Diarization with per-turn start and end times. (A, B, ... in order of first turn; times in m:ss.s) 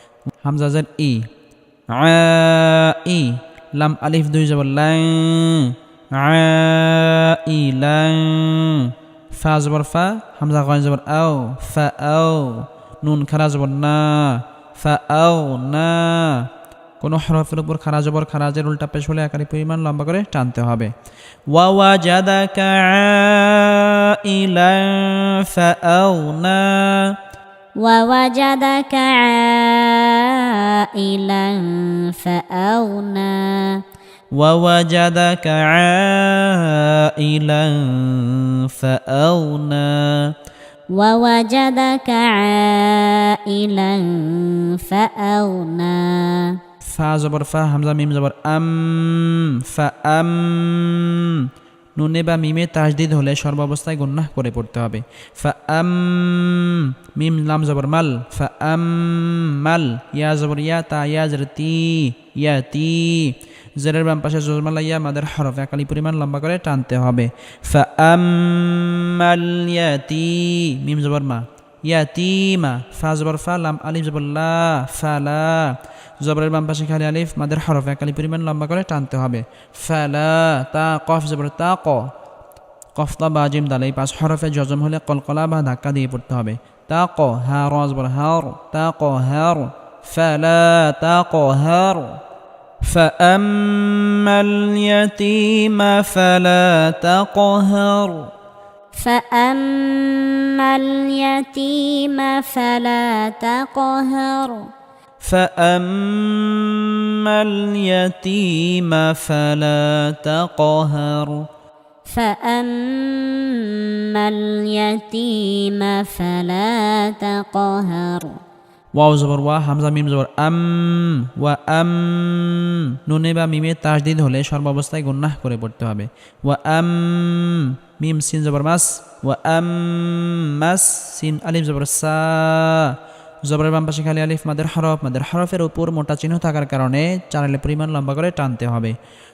0:00.4-0:01.3 A
0:01.9-0:16.5 A
0:17.0-0:20.9 A
0:21.5-0:27.1 A
0:27.8-0:33.8 B
0:34.3-0:40.3 A
0:40.9-0:46.6 B
0:46.9-1:22.1 A
1:23.0-1:32.2 A
1:32.8-1:38.3 A
1:39.0-1:44.7 B
1:45.2-1:51.4 A
1:52.1-1:58.4 B
1:58.9-2:19.0 A